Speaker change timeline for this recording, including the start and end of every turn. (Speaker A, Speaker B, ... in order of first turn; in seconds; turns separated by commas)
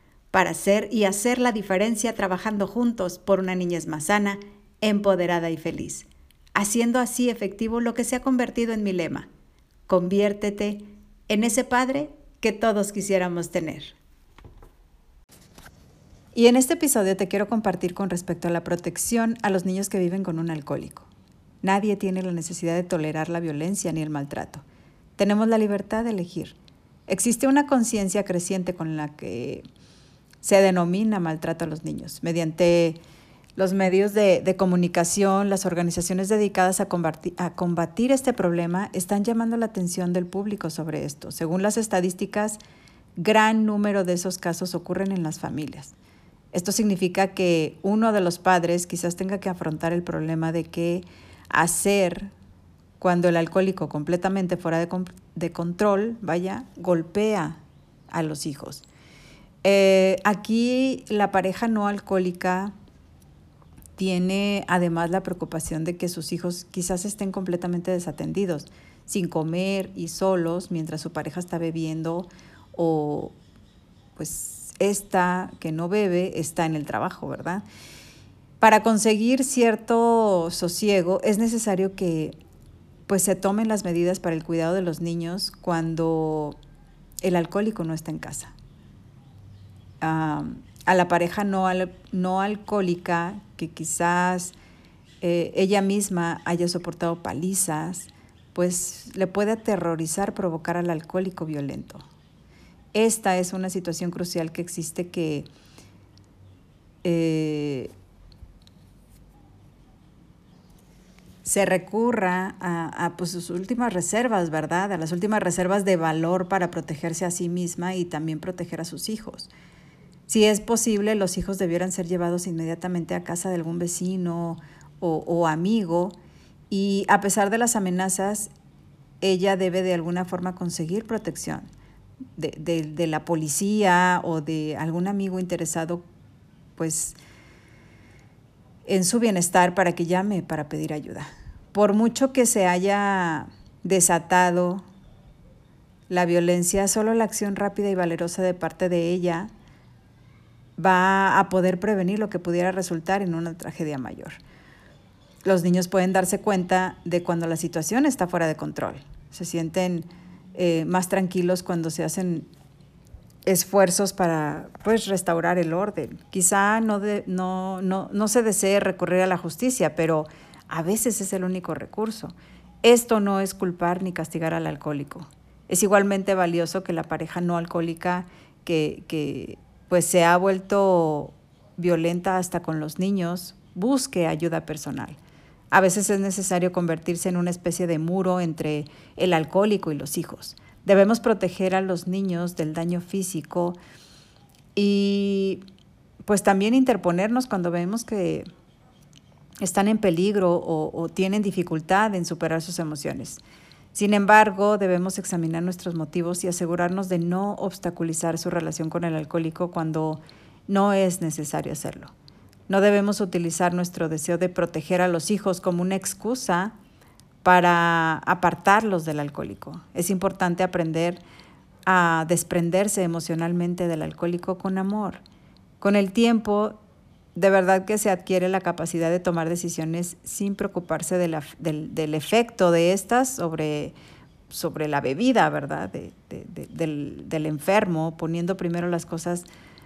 Speaker A: 0.3-9.3, Speaker A: 9.9-14.0, Speaker A: 16.3-21.1, Speaker A: 21.6-24.6, Speaker A: 25.2-26.6, Speaker A: 27.1-29.6, Speaker A: 30.4-33.0, Speaker A: 33.6-42.6, Speaker A: 43.2-46.0, Speaker A: 46.5-52.3, Speaker A: 53.0-58.9, Speaker A: 59.6-62.7, Speaker A: 64.0-73.3, Speaker A: 74.2-77.6, Speaker A: 78.6-82.3, Speaker A: 83.1-86.6, Speaker A: 87.2-88.5, Speaker A: 90.0-94.6, Speaker A: 95.2-102.0, Speaker A: 102.9-105.5, Speaker A: 107.0-107.9, Speaker A: 111.4-119.5, Speaker A: 120.3-126.2, Speaker A: 126.7-128.5, Speaker A: 129.2-131.7, Speaker A: 132.4-136.0, Speaker A: 136.8-137.2, Speaker A: 138.9-144.8, Speaker A: 146.1-149.5, Speaker A: 150.8-154.4, Speaker A: 155.4-162.5, Speaker A: 163.5-185.2, Speaker A: 185.7-193.8, Speaker A: 194.8-195.6, Speaker A: 196.2-198.5, Speaker A: 199.6-203.4, Speaker A: 203.9-212.1, Speaker A: 212.7-216.7, Speaker A: 217.4-221.2, Speaker A: 221.9-225.2, Speaker A: 225.8-226.8, Speaker A: 227.3-233.9, Speaker A: 234.5-239.5